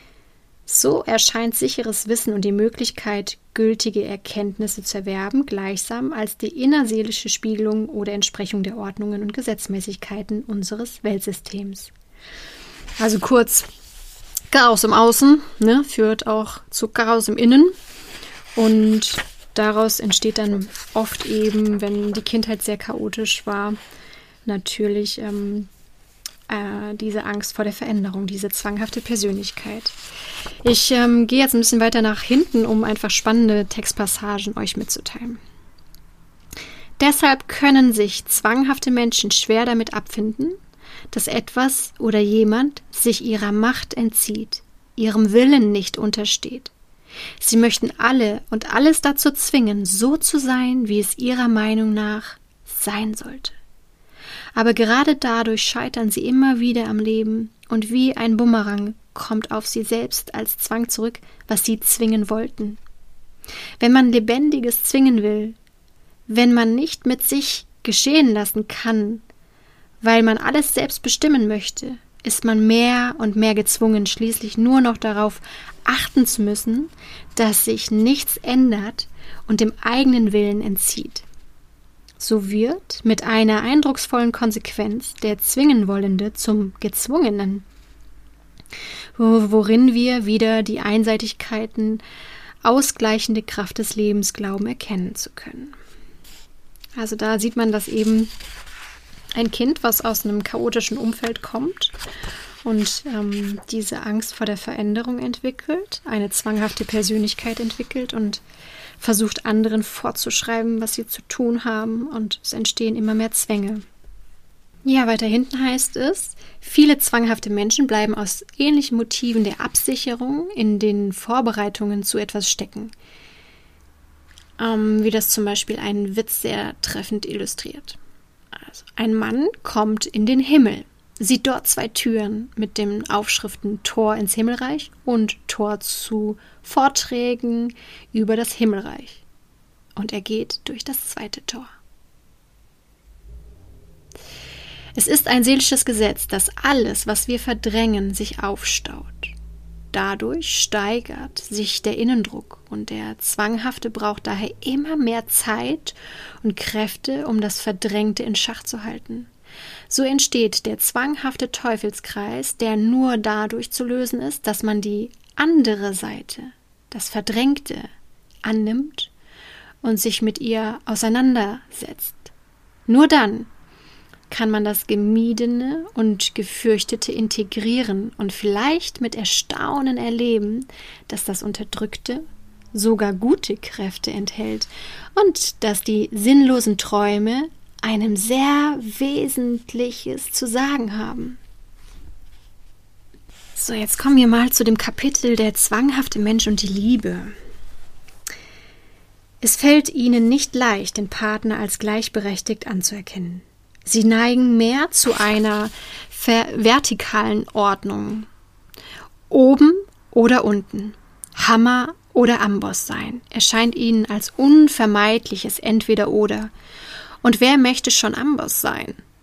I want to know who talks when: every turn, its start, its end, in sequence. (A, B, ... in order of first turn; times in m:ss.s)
0:00.6-0:11.9 A
0:13.0-0:13.7 A
0:14.5-0:17.7 A
0:18.6-0:23.8 A
0:24.4-0:25.7 A
0:26.5-0:29.9 A
0:30.6-0:35.4 A
0:37.0-0:40.6 A
0:41.1-0:46.7 A
0:47.4-0:53.6 A
0:54.5-1:02.8 A
1:03.8-1:05.6 A
1:06.3-1:09.2 A
1:10.0-1:21.2 A
1:22.2-1:27.6 A
1:29.2-1:32.0 A
1:32.6-1:35.7 A
1:37.0-1:38.3 A
1:39.4-1:41.9 A
1:42.6-1:48.4 A
1:49.0-1:53.8 A
1:54.8-2:02.9 A
2:04.6-2:08.0 A
2:08.5-2:19.2 A
2:20.0-2:21.7 A
2:25.0-2:29.3 A
2:29.9-2:39.3 A
2:39.9-2:47.9 A
2:48.4-2:49.1 A
2:49.8-2:52.3 A
2:52.9-2:53.5 A
2:54.3-3:11.4 A
3:13.5-3:17.3 A
3:19.4-3:28.3 A
3:29.3-3:36.5 A
3:37.2-3:39.0 A